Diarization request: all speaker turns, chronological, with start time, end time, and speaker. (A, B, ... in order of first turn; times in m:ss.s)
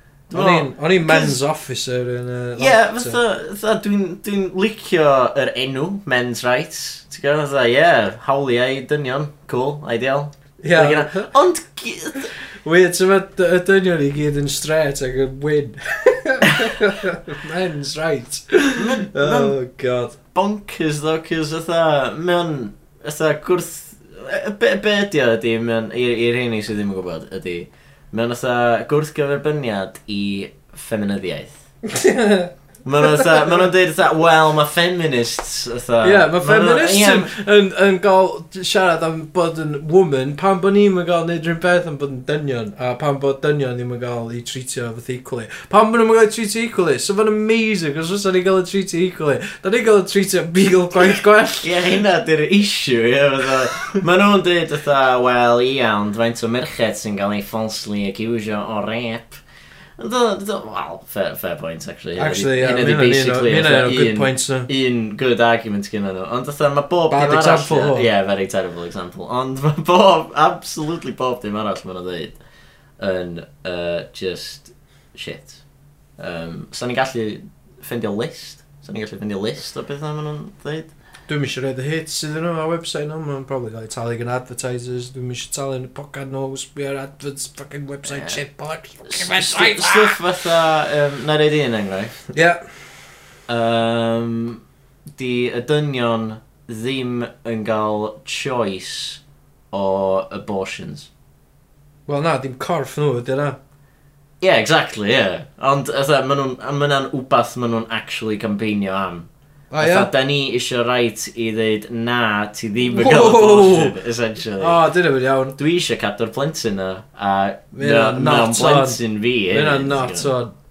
0:00.3-0:01.4 A
0:00.3-0:03.2 B
0:02.6-0:12.3 A
0:10.6-0:11.3 B
0:12.6-0:20.2 B
0:18.7-0:19.6 A
0:20.3-0:31.5 A
0:31.8-0:33.6 B
0:32.8-0:37.3 A
0:36.0-0:51.8 B
0:51.6-0:59.4 A
1:00.0-1:12.4 A
1:02.2-1:04.7 B
1:07.1-1:08.1 B
1:13.0-1:15.6 A
1:16.2-1:20.9 A
1:21.3-1:30.2 B
1:28.0-1:28.4 A
1:29.0-1:32.2 A
1:32.3-1:32.7 B
1:33.5-1:34.6 A
1:35.1-1:39.2 A
1:39.7-1:41.1 A
1:42.1-1:43.6 B
1:44.4-1:54.8 A
1:49.7-1:50.1 B
1:52.9-1:53.9 B
1:54.6-1:55.5 B
1:55.6-2:00.4 A
1:57.7-2:00.5 B